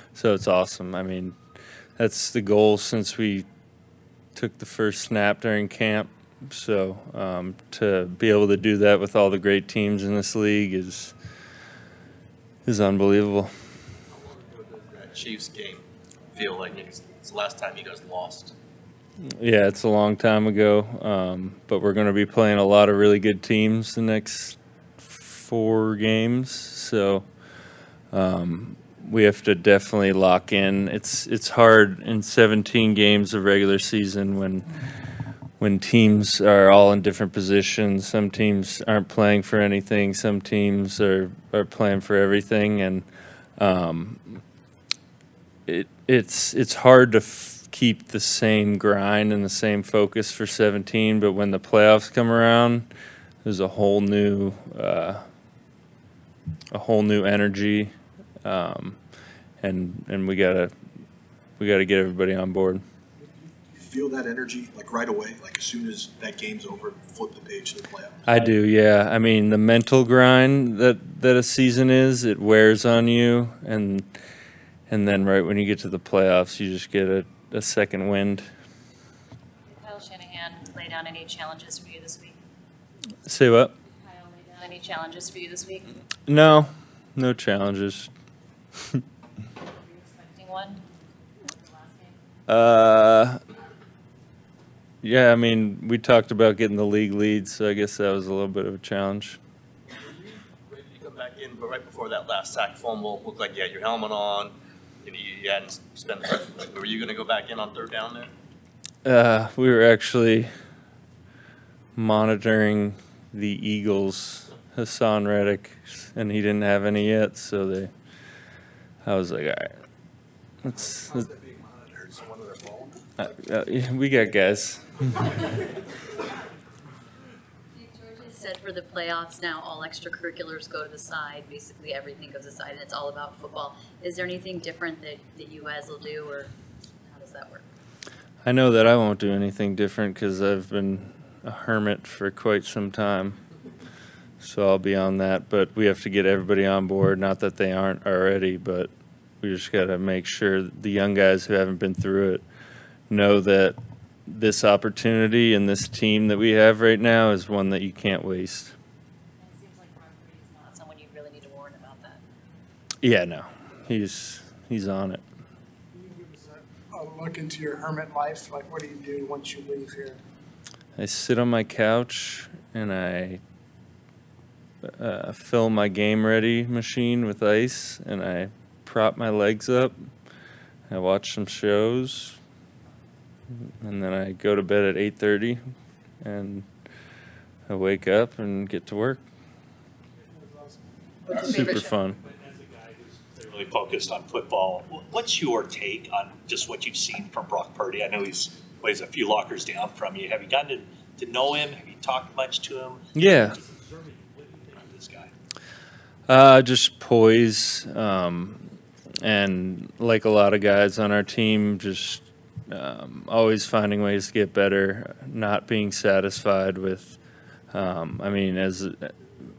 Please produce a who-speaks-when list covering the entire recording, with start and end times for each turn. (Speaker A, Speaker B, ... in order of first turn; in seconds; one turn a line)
Speaker A: 0.1-1.4
Speaker A: 2.0-3.5
Speaker A: 4.3-11.1
Speaker A: 12.7-13.5
Speaker B: 14.1-18.5
Speaker A: 19.2-27.2
Speaker A: 28.1-34.8
Speaker A: 35.6-43.0
Speaker A: 43.6-44.4
Speaker A: 45.7-52.9
Speaker A: 53.4-55.2
Speaker A: 56.7-59.0
Speaker A: 59.6-60.7
Speaker A: 61.6-62.8
Speaker C: 63.2-68.2
Speaker A: 68.2-74.2
Speaker A: 74.9-78.5
Speaker D: 79.7-82.4
Speaker A: 83.3-83.7
Speaker D: 83.9-85.9
Speaker A: 86.3-88.1
Speaker D: 89.7-90.8
Speaker D: 91.5-92.2
Speaker A: 92.5-93.4
Speaker A: 95.0-99.4
Speaker B: 99.9-108.3
Speaker A: 109.0-110.5
Speaker A: 112.0-117.9
Speaker A: 119.0-119.7
Speaker C: 120.7-122.9
Speaker A: 120.8-121.2
Speaker A: 123.2-125.0
Speaker D: 127.7-136.5
Speaker D: 137.0-137.6
Speaker A: 138.4-143.4
Speaker A: 144.4-148.9
Speaker A: 149.4-152.4
Speaker A: 153.1-158.7
Speaker D: 159.4-162.2
Speaker A: 163.0-165.2
Speaker E: 165.9-170.2
Speaker A: 171.0-173.4
Speaker A: 174.8-180.1
Speaker A: 180.9-182.4
Speaker A: 183.6-185.6
Speaker A: 186.2-186.7
Speaker A: 187.7-189.2
Speaker E: 190.2-190.8
Speaker D: 191.3-191.9
Speaker A: 191.4-192.2
Speaker F: 192.2-205.3
Speaker A: 203.1-203.6
Speaker A: 206.3-217.2
Speaker A: 217.7-219.2